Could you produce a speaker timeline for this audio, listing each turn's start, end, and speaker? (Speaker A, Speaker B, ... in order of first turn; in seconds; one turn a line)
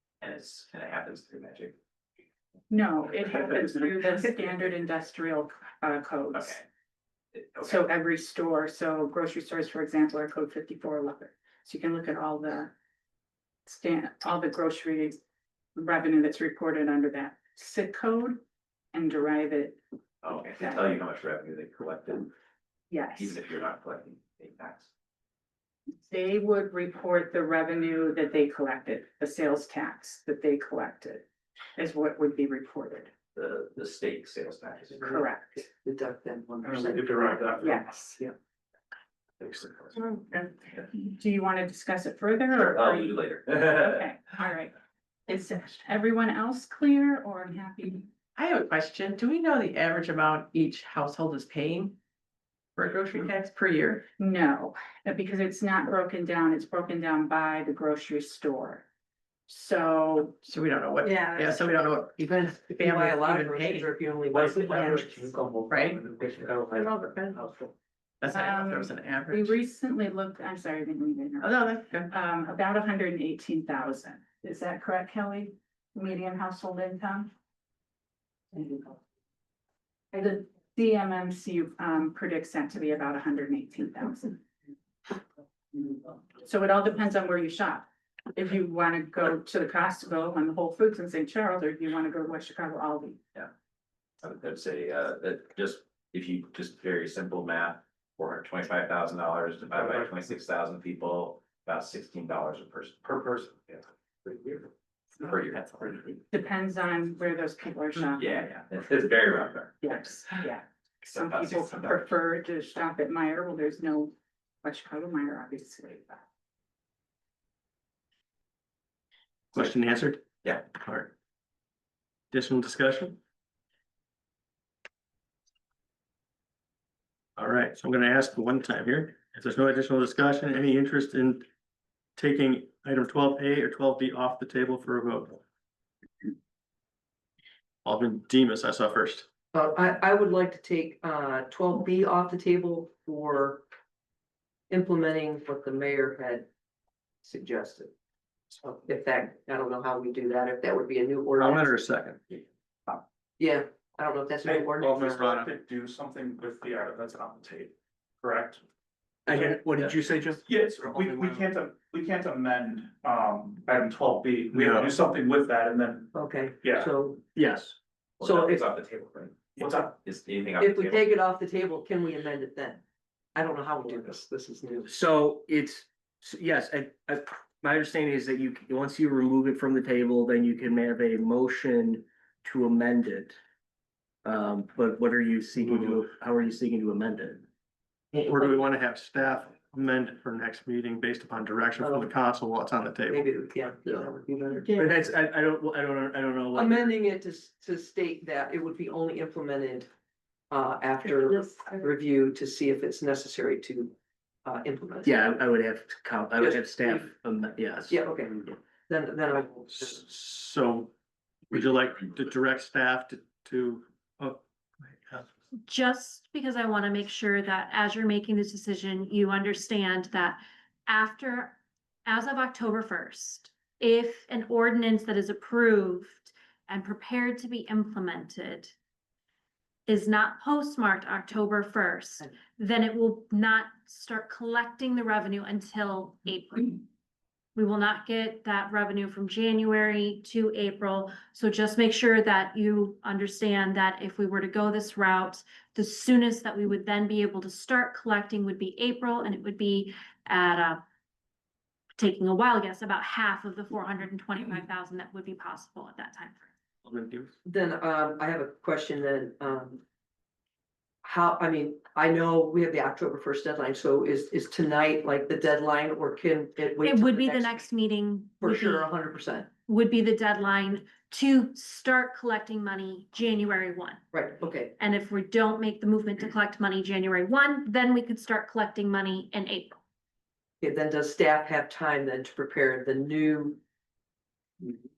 Speaker A: 0.2-1.7
Speaker B: 2.7-6.6
Speaker A: 6.3-6.6
Speaker A: 7.3-7.8
Speaker B: 7.6-12.7
Speaker B: 13.7-15.2
Speaker B: 15.8-18.4
Speaker B: 18.9-19.8
Speaker A: 20.2-22.3
Speaker B: 20.6-20.9
Speaker B: 22.9-23.4
Speaker A: 23.1-24.9
Speaker B: 26.1-31.2
Speaker B: 31.8-33.1
Speaker A: 33.3-35.0
Speaker C: 34.9-37.4
Speaker B: 35.0-35.7
Speaker D: 36.6-38.0
Speaker B: 37.6-38.2
Speaker A: 39.4-39.9
Speaker B: 40.0-44.7
Speaker A: 42.5-44.0
Speaker B: 45.3-48.1
Speaker E: 48.3-52.0
Speaker E: 52.8-54.0
Speaker B: 54.2-58.8
Speaker B: 59.5-60.5
Speaker E: 60.4-64.0
Speaker C: 61.0-61.8
Speaker C: 62.4-65.4
Speaker D: 64.3-66.5
Speaker E: 64.6-65.1
Speaker E: 65.7-69.5
Speaker B: 68.2-77.3
Speaker E: 71.4-72.1
Speaker B: 78.5-79.0
Speaker B: 80.1-84.4
Speaker B: 85.7-93.2
Speaker A: 94.2-104.6
Speaker D: 99.7-100.1
Speaker D: 103.1-103.5
Speaker A: 105.2-106.2
Speaker B: 106.3-108.5
Speaker A: 108.0-109.9
Speaker B: 109.8-116.2
Speaker A: 111.1-112.0
Speaker F: 119.5-121.1
Speaker F: 122.3-123.2
Speaker F: 127.4-131.4
Speaker F: 132.2-135.4
Speaker F: 137.8-139.2
Speaker C: 139.5-143.6
Speaker C: 144.7-146.5
Speaker C: 147.2-147.9
Speaker C: 148.5-151.8
Speaker F: 151.4-152.2
Speaker C: 152.3-155.4
Speaker F: 154.8-155.1
Speaker D: 155.0-158.6
Speaker G: 159.2-160.4
Speaker D: 160.5-166.1
Speaker F: 164.5-164.8
Speaker C: 166.1-167.2
Speaker D: 166.6-166.9
Speaker G: 167.3-167.7
Speaker A: 168.2-171.1
Speaker C: 168.2-168.6
Speaker D: 169.6-169.9
Speaker C: 170.6-172.8
Speaker C: 173.3-174.9
Speaker G: 174.8-183.4
Speaker G: 184.2-187.4
Speaker F: 188.1-193.3
Speaker C: 191.8-192.1
Speaker C: 193.1-194.9
Speaker G: 194.7-196.9
Speaker C: 196.5-199.9
Speaker C: 200.5-205.1
Speaker G: 205.0-208.0
Speaker C: 206.4-207.1
Speaker C: 207.9-209.9
Speaker F: 209.7-210.9
Speaker F: 211.5-215.3
Speaker H: 215.7-228.7
Speaker H: 229.9-236.8
Speaker H: 237.6-250.8
Speaker H: 252.0-256.5
Speaker F: 256.9-257.3
Speaker C: 257.4-259.8
Speaker C: 261.0-267.6
Speaker H: 266.8-268.9
Speaker C: 268.4-269.5
Speaker H: 269.7-274.0
Speaker C: 274.1-274.7
Speaker H: 274.8-279.7
Speaker C: 280.6-283.6